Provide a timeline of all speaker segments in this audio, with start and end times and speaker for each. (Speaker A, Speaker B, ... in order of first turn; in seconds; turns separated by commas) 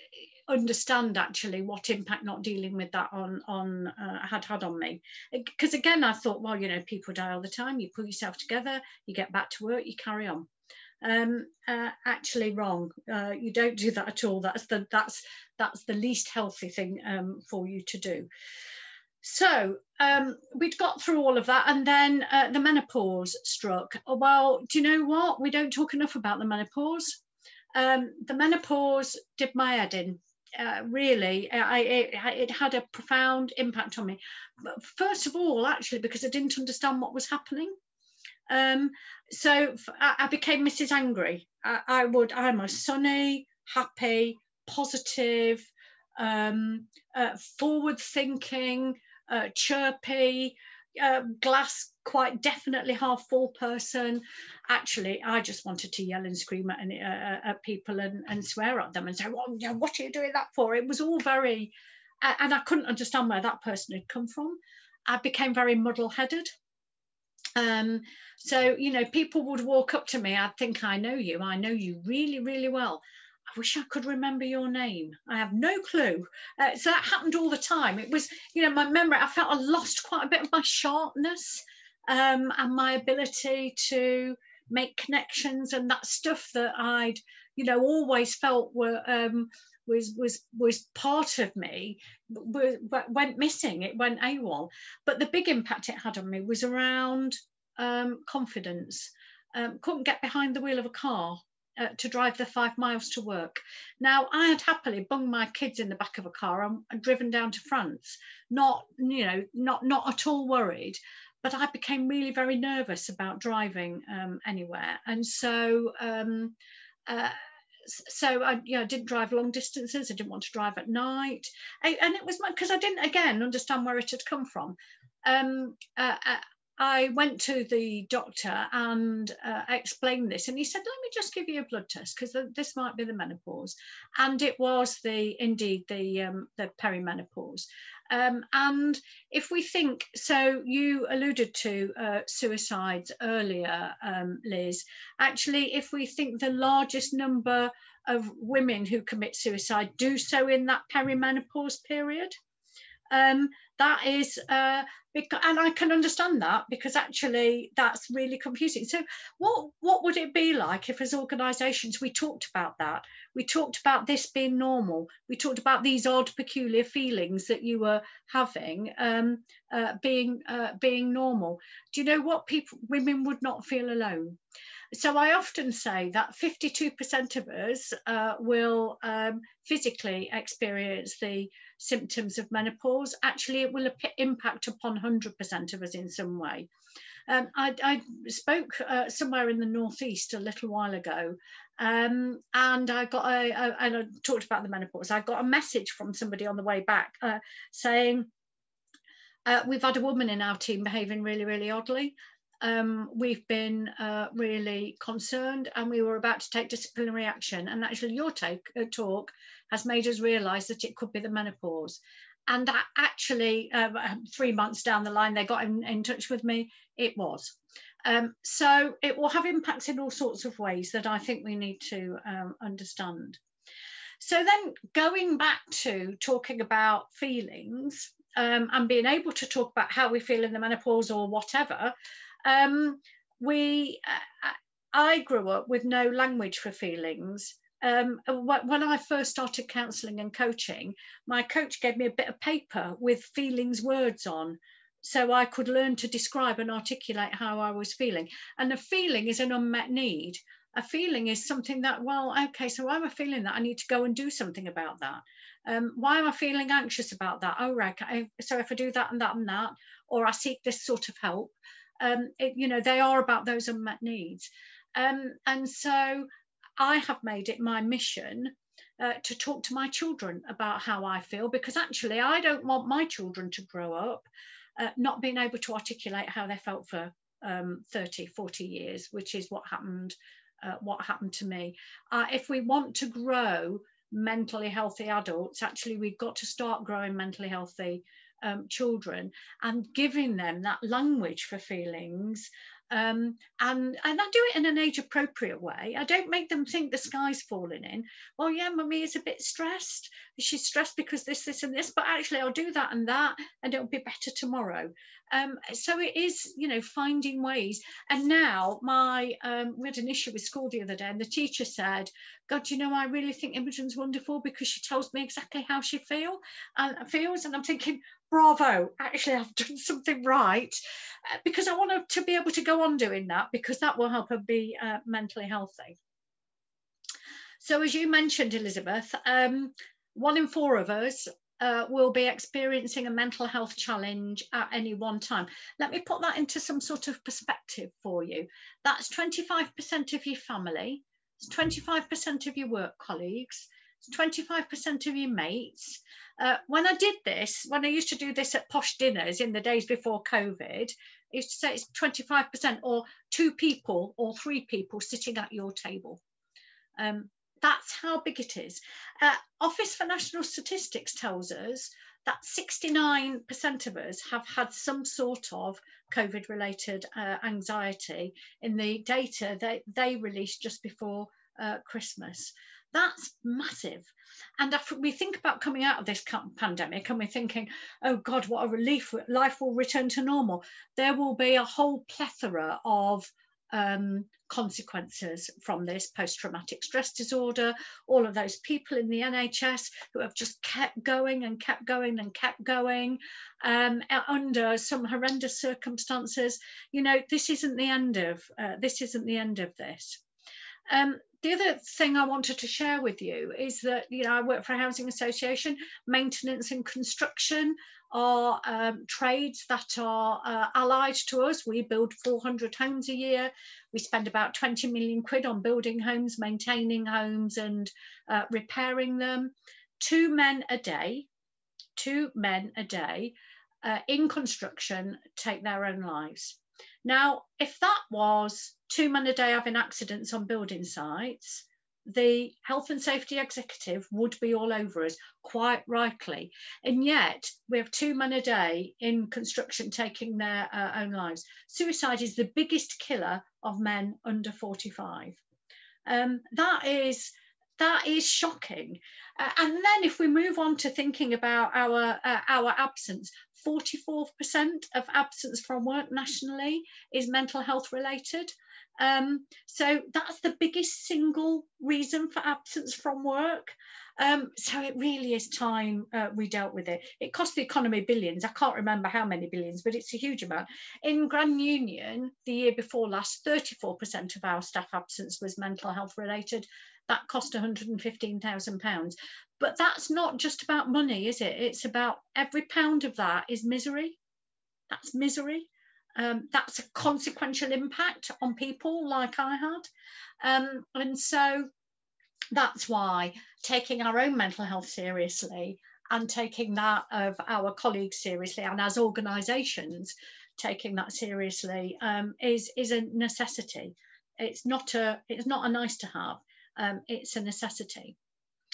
Speaker A: 0.5-10.5, Speaker A: 11.0-18.3, Speaker A: 19.2-27.2, Speaker A: 27.7-37.7, Speaker A: 38.5-61.7, Speaker A: 62.2-66.5, Speaker A: 67.5-73.0, Speaker A: 73.5-116.5, Speaker A: 117.1-152.3, Speaker A: 153.1-174.4, Speaker A: 174.9-186.7, Speaker A: 187.3-198.3, Speaker A: 199.4-223.4, Speaker A: 224.2-231.9, Speaker A: 232.4-266.3, Speaker A: 266.8-274.2, Speaker A: 274.8-320.8, Speaker A: 321.4-325.9, Speaker A: 327.6-356.2, Speaker A: 357.0-400.2, Speaker A: 400.9-421.3, Speaker A: 422.0-445.4, Speaker A: 446.1-484.2, Speaker A: 484.9-489.9, Speaker A: 490.4-491.7, Speaker A: 492.5-508.1